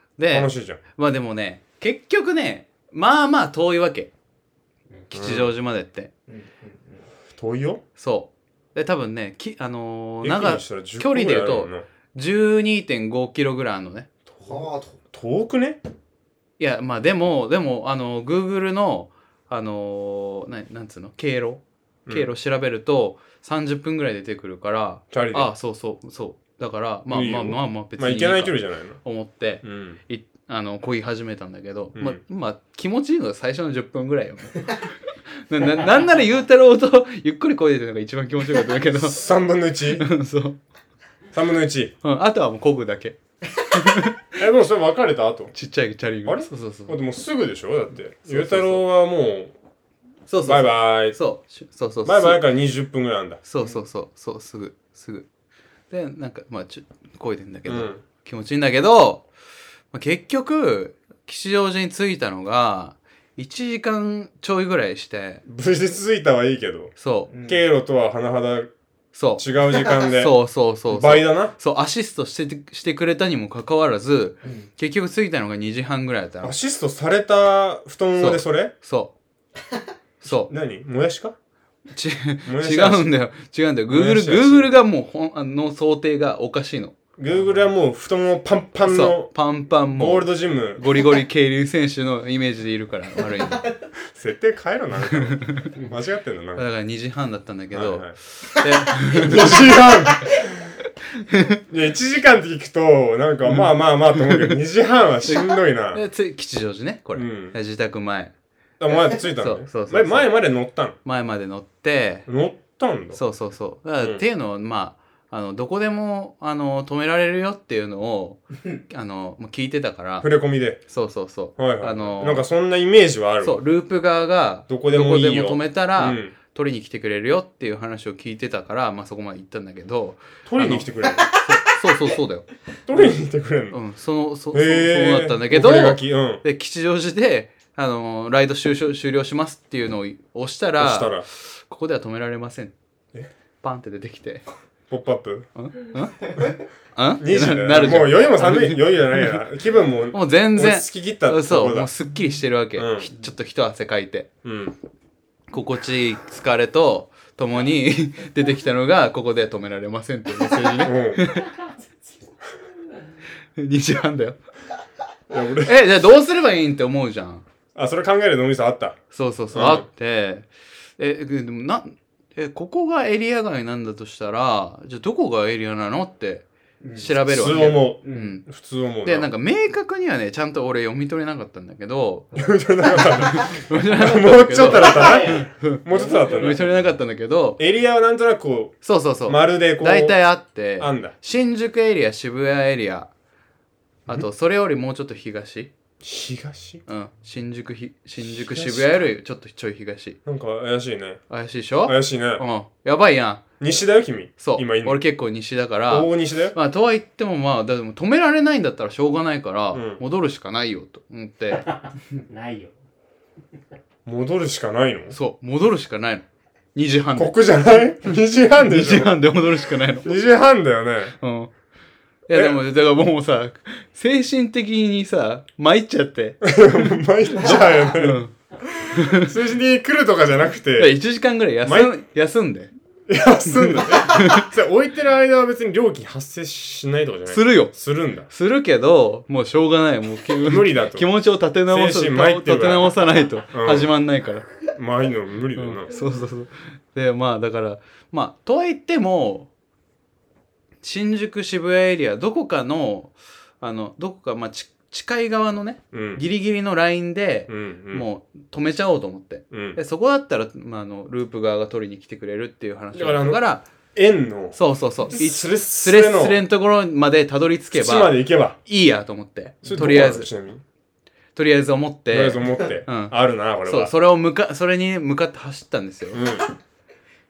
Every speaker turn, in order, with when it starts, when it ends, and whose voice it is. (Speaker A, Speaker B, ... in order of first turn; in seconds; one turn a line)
Speaker A: 0.2-4.1
Speaker B: 0.3-0.8
Speaker A: 5.1-6.1
Speaker B: 5.1-5.5
Speaker C: 6.3-7.1
Speaker B: 7.3-7.8
Speaker A: 8.0-14.1
Speaker B: 10.2-11.9
Speaker B: 14.3-15.8
Speaker C: 14.4-15.0
Speaker A: 16.6-39.2
Speaker B: 25.1-25.5
Speaker B: 27.1-29.0
Speaker B: 29.6-30.0
Speaker B: 31.9-32.2
Speaker B: 38.9-40.0
Speaker A: 39.9-40.6
Speaker B: 41.3-41.9
Speaker A: 42.0-44.4
Speaker B: 44.4-45.5
Speaker A: 45.5-47.0
Speaker B: 46.2-49.5
Speaker A: 48.3-48.8
Speaker A: 50.3-52.4
Speaker B: 50.4-51.2
Speaker B: 52.0-53.4
Speaker A: 53.4-55.3
Speaker C: 53.6-53.9
Speaker A: 55.9-59.3
Speaker B: 57.6-58.0
Speaker A: 59.9-65.4
Speaker B: 65.5-66.9
Speaker A: 67.0-67.3
Speaker C: 67.3-67.6
Speaker B: 67.4-68.7
Speaker A: 69.1-76.5
Speaker B: 69.4-70.3
Speaker B: 70.9-71.5
Speaker C: 74.4-74.7
Speaker B: 76.4-78.7
Speaker A: 78.2-79.1
Speaker A: 80.2-80.5
Speaker B: 80.2-81.3
Speaker A: 81.9-86.9
Speaker B: 82.5-83.1
Speaker B: 83.9-84.7
Speaker B: 87.2-89.3
Speaker A: 88.8-93.7
Speaker B: 89.9-90.8
Speaker B: 94.0-96.7
Speaker A: 95.1-95.8
Speaker A: 96.5-99.8
Speaker B: 97.7-98.2
Speaker B: 99.0-100.5
Speaker A: 101.2-101.6
Speaker B: 101.7-106.0
Speaker A: 104.3-104.5
Speaker A: 105.2-108.3
Speaker B: 107.1-107.6
Speaker B: 108.8-111.0
Speaker A: 109.1-110.3
Speaker A: 111.0-112.3
Speaker B: 112.3-113.2
Speaker A: 113.1-120.3
Speaker B: 114.0-114.2
Speaker B: 120.2-120.8
Speaker A: 120.8-122.5
Speaker B: 121.6-123.6
Speaker A: 123.4-132.5
Speaker B: 124.7-126.3
Speaker B: 130.4-131.3
Speaker B: 132.8-133.8
Speaker A: 133.7-142.7
Speaker B: 134.5-136.4
Speaker B: 140.8-141.2
Speaker A: 143.6-144.4
Speaker B: 144.9-145.5
Speaker A: 145.6-149.4
Speaker B: 147.2-151.9
Speaker A: 150.1-154.3
Speaker B: 152.8-153.1
Speaker B: 154.4-154.8
Speaker A: 155.5-161.6
Speaker B: 160.8-161.3
Speaker A: 163.6-164.4
Speaker B: 165.3-165.8
Speaker A: 165.6-167.4
Speaker B: 167.7-169.0
Speaker A: 169.1-178.4
Speaker B: 169.5-169.8
Speaker C: 176.8-178.3
Speaker B: 177.2-179.3
Speaker A: 179.0-182.3
Speaker B: 182.3-186.7
Speaker A: 182.9-187.6
Speaker D: 184.6-186.6
Speaker B: 187.6-190.2
Speaker A: 188.8-193.1
Speaker B: 190.8-191.1
Speaker A: 194.1-195.7
Speaker B: 196.0-196.8
Speaker A: 196.9-200.2
Speaker B: 198.2-199.1
Speaker B: 200.2-201.2
Speaker A: 201.3-203.4
Speaker B: 201.8-202.4
Speaker B: 203.6-205.0
Speaker A: 204.4-211.7
Speaker B: 205.9-206.6
Speaker B: 209.7-210.0
Speaker D: 211.6-212.7
Speaker B: 214.0-215.2
Speaker A: 215.1-217.3
Speaker B: 217.1-219.1
Speaker A: 218.6-220.1
Speaker B: 220.0-221.2
Speaker A: 221.2-221.5
Speaker A: 222.3-228.3
Speaker B: 222.3-222.6
Speaker B: 226.4-228.2
Speaker B: 228.8-231.0
Speaker A: 228.9-229.3
Speaker A: 230.8-232.7
Speaker B: 231.6-231.9
Speaker B: 233.1-238.3
Speaker A: 233.5-234.5
Speaker A: 237.3-237.7
Speaker A: 238.3-244.5
Speaker B: 240.4-241.1
Speaker B: 241.7-242.9
Speaker B: 243.5-243.9
Speaker B: 244.7-245.9
Speaker A: 245.6-249.5
Speaker A: 250.8-263.6
Speaker B: 255.9-256.2
Speaker B: 257.5-258.1
Speaker B: 259.5-259.8
Speaker B: 262.9-263.4
Speaker B: 263.9-266.4
Speaker A: 264.5-270.3
Speaker B: 267.7-268.6
Speaker B: 269.6-270.6
Speaker A: 271.4-276.2
Speaker B: 272.1-273.9
Speaker B: 276.1-276.5